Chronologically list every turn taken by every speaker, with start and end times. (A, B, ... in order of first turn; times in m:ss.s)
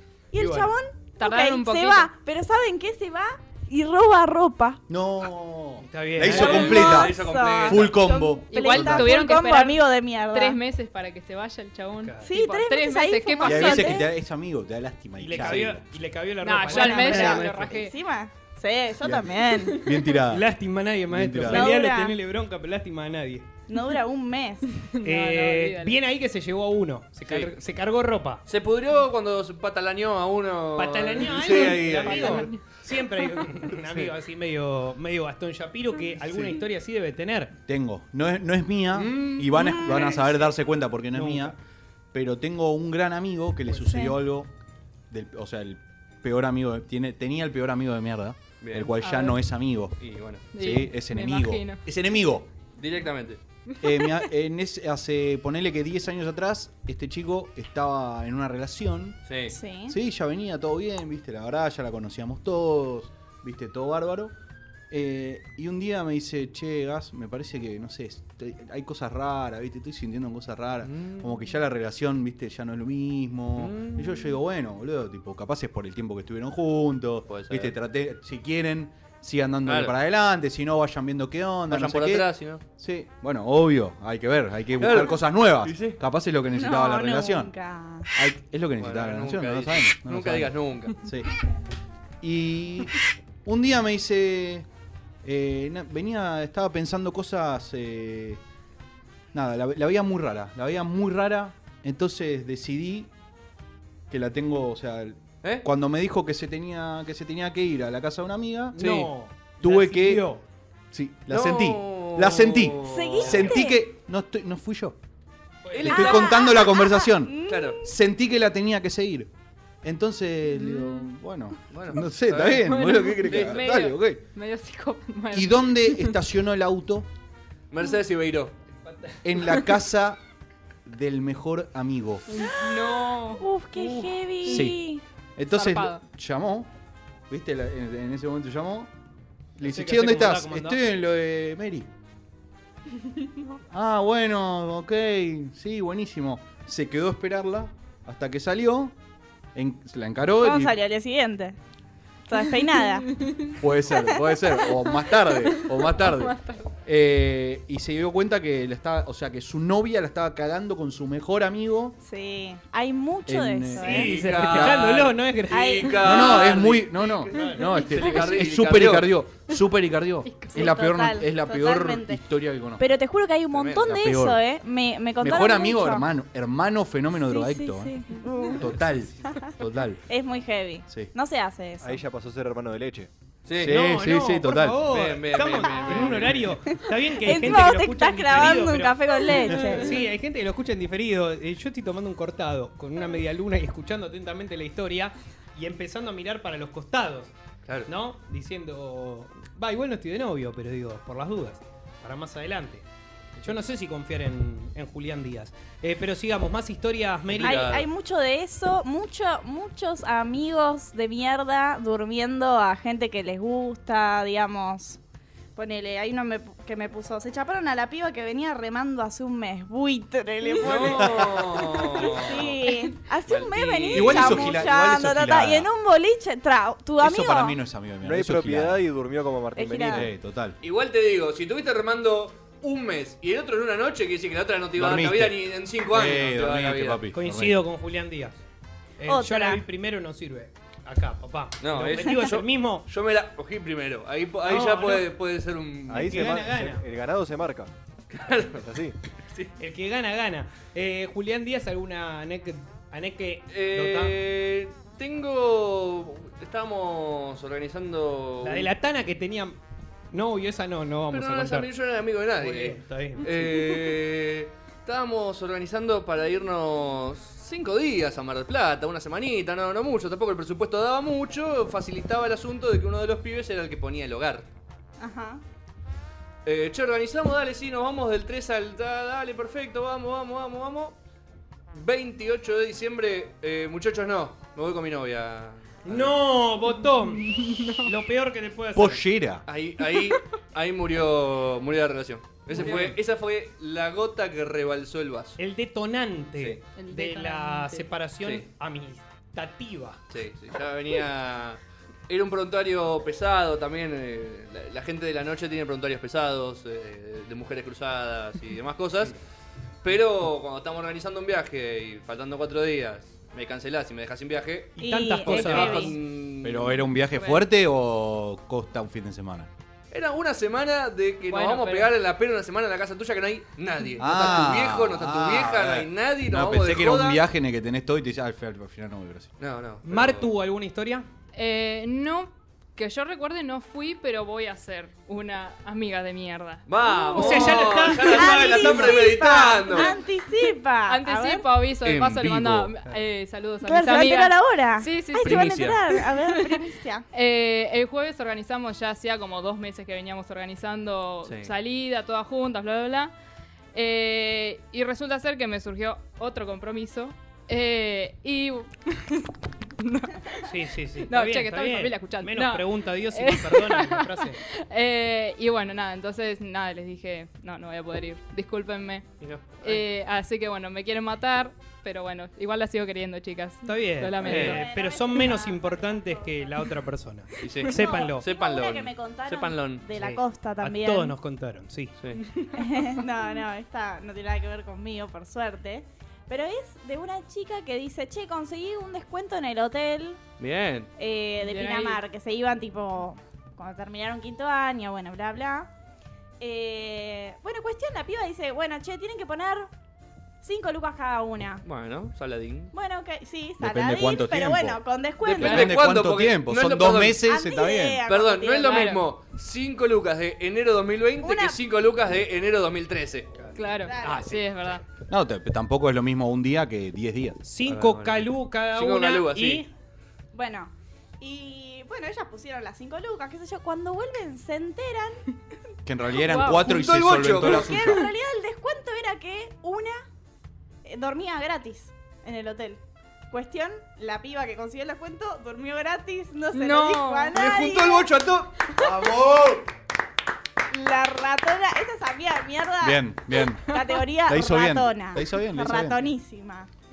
0:00.3-0:04.8 A
0:00.3-0:00.7 B
0:01.2-0:02.1 C
0:04.9-0:09.1 D
0:05.8-0:06.8 B
0:06.2-0:07.9 E
0:06.2-0:10.6 A
0:08.5-0:14.0 C
0:12.0-0:12.4 B
0:12.2-0:14.1 A
0:13.4-0:15.8 D
0:15.2-0:17.8 B
0:15.3-0:15.7 E
0:16.4-0:17.9 C
0:16.6-0:19.9 A
0:19.0-0:20.5 D
0:19.6-0:23.5 B
0:21.1-0:21.7 D
0:21.5-0:22.2 A
0:23.7-0:24.8 A
0:24.9-0:26.0 C
0:25.0-0:28.4 B
0:27.2-0:27.6 E
0:28.5-0:32.5 E
0:30.7-0:37.5 B
0:31.6-0:32.1 D
0:32.2-0:32.7 C
0:37.7-0:41.6 D
0:39.0-0:39.9 E
0:39.5-0:40.1 A
0:40.1-0:40.5 B
0:41.1-0:41.6 B
0:42.1-0:44.5 D
0:43.7-0:44.0 B
0:45.1-0:50.0 D
0:48.6-0:48.9 E
0:49.0-0:49.4 C
0:50.0-0:50.4 E
0:50.5-0:51.8 C
0:50.5-0:52.5 D
0:52.8-0:53.4 E
0:53.8-0:59.2 D
0:59.2-0:59.6 E
0:59.5-1:00.0 A
0:59.9-1:04.3 D
1:04.9-1:27.5 D
1:10.8-1:11.5 E
1:13.6-1:14.3 E
1:17.3-1:17.8 E
1:19.6-1:19.9 E
1:21.7-1:22.6 E
1:24.8-1:26.0 E
1:26.5-1:28.1 A
1:28.1-1:31.4 D
1:28.8-1:30.9 E
1:32.2-1:34.7 D
1:35.2-1:38.4 D
1:39.3-1:43.1 D
1:44.1-1:48.8 D
1:48.7-1:50.4 B
1:48.8-1:49.1 E
1:49.6-1:50.2 D
1:50.9-1:55.0 D
1:51.3-1:53.6 E
1:52.8-1:53.8 A
1:55.6-1:55.9 B
1:55.7-1:56.5 E
1:55.8-1:59.3 D
1:55.8-1:57.9 A
1:57.4-1:57.8 E
1:59.8-2:04.2 D
2:01.7-2:02.7 E
2:02.6-2:06.1 C
2:03.2-2:03.6 E
2:05.3-2:07.1 D
2:07.7-2:08.5 E
2:08.8-2:09.2 B
2:09.2-2:10.2 D
2:10.8-2:12.2 D
2:12.3-2:14.7 C
2:13.4-2:15.0 A
2:14.4-2:14.8 D
2:15.4-2:16.7 D
2:15.4-2:16.0 C
2:17.3-2:18.9 D
2:19.6-2:21.9 D
2:19.6-2:20.8 B
2:23.2-2:23.5 A
2:23.7-2:28.9 D
2:29.5-2:30.8 D
2:30.4-2:31.6 A
2:32.3-2:33.1 A
2:32.9-2:36.7 C
2:33.5-2:42.0 D
2:42.0-2:44.1 A
2:43.3-2:44.8 D
2:43.8-2:49.1 E
2:44.0-2:46.1 B
2:45.5-2:46.6 A
2:46.0-2:52.8 D
2:47.3-2:47.7 B
2:50.2-2:50.6 C
2:50.5-2:52.2 A
2:52.8-2:56.0 A
2:53.5-2:54.0 E
2:53.8-2:54.4 D
2:55.2-2:58.0 D
2:57.1-2:58.8 A
2:58.6-3:00.0 D
3:00.1-3:02.0 A
3:01.8-3:03.1 F
3:03.4-3:03.8 E
3:03.6-3:04.8 D
3:03.7-3:17.3 B
3:04.9-3:06.6 E
3:06.7-3:10.1 A
3:17.9-3:22.8 B
3:23.4-3:27.7 B
3:27.3-3:27.9 E
3:27.4-3:35.0 A
3:35.6-3:47.6 A
3:40.6-3:42.7 E
3:40.8-3:41.6 D
3:43.3-3:44.6 E
3:43.9-3:45.7 D
3:47.0-3:48.8 D
3:48.0-3:50.1 F
3:49.6-3:50.1 A
3:49.8-3:50.6 D
3:50.6-3:57.0 E
3:54.8-3:57.6 D
3:57.1-3:58.4 B
3:59.0-4:02.8 B
3:59.0-3:59.6 A
4:01.6-4:06.4 E
4:04.4-4:05.1 B
4:05.9-4:07.7 F
4:06.1-4:06.8 B
4:08.1-4:09.5 E
4:08.6-4:08.9 F
4:09.6-4:14.2 B
4:13.5-4:18.7 E
4:18.4-4:19.6 B
4:20.1-4:21.7 B
4:21.1-4:34.5 E
4:22.4-4:23.9 B
4:35.0-4:35.4 A
4:36.4-4:40.9 E
4:41.7-4:46.2 E
4:45.8-4:49.0 B
4:46.7-4:47.9 C
4:48.7-4:49.4 D
4:49.4-4:55.4 E
4:52.6-4:52.9 C
4:55.4-5:00.0 B
4:56.7-4:57.9 C
5:00.1-5:09.1 E
5:09.8-5:16.8 E
5:14.8-5:15.9 B
5:14.8-5:15.9 A
5:16.4-5:19.5 D
5:17.1-5:17.4 C
5:19.9-5:27.2 E
5:21.3-5:21.9 C
5:24.0-5:29.3 D
5:29.4-5:30.3 E
5:29.8-5:31.0 B
5:31.3-5:37.6 C
5:36.7-5:39.9 E
5:36.9-5:41.5 A
5:37.1-5:39.0 B
5:39.7-5:40.0 C
5:40.8-5:46.6 C
5:41.8-5:42.7 E
5:43.6-5:47.0 A
5:45.2-5:45.8 E
5:47.1-5:53.1 C
5:51.2-5:51.5 E
5:53.7-5:59.2 C
5:59.8-6:14.6 C
6:00.4-6:04.4 B
6:09.2-6:09.8 E
6:09.4-6:09.8 B
6:13.6-6:18.2 B
6:14.2-6:16.7 A
6:14.2-6:14.6 E
6:17.4-6:20.2 E
6:17.7-6:21.2 A
6:20.0-6:22.0 B
6:22.2-6:22.8 C
6:22.5-6:30.2 A
6:30.4-6:30.9 E
6:31.0-6:35.7 A
6:31.4-6:32.0 C
6:36.4-6:39.7 A
6:40.4-6:41.6 A
6:41.6-6:42.7 E
6:42.7-6:45.7 A
6:43.6-6:48.0 D
6:45.3-6:47.2 E
6:47.2-6:48.9 A
6:48.1-6:53.6 E
6:48.6-6:49.0 C
6:51.2-6:51.6 A
6:53.6-6:54.8 C
6:53.8-6:54.4 A
6:54.0-6:54.8 B
6:55.1-6:57.4 D
6:57.4-6:59.7 B
6:57.7-6:59.6 E
7:00.3-7:05.2 A
7:05.8-7:08.1 D
7:06.2-7:06.6 C
7:06.4-7:07.9 E
7:07.4-7:09.9 A
7:10.8-7:12.8 A
7:13.3-7:18.1 A
7:16.5-7:17.3 C
7:17.3-7:18.5 E
7:18.8-7:19.6 D
7:20.7-7:23.0 A
7:22.8-7:26.1 D
7:23.5-7:23.9 C
7:23.6-7:26.7 A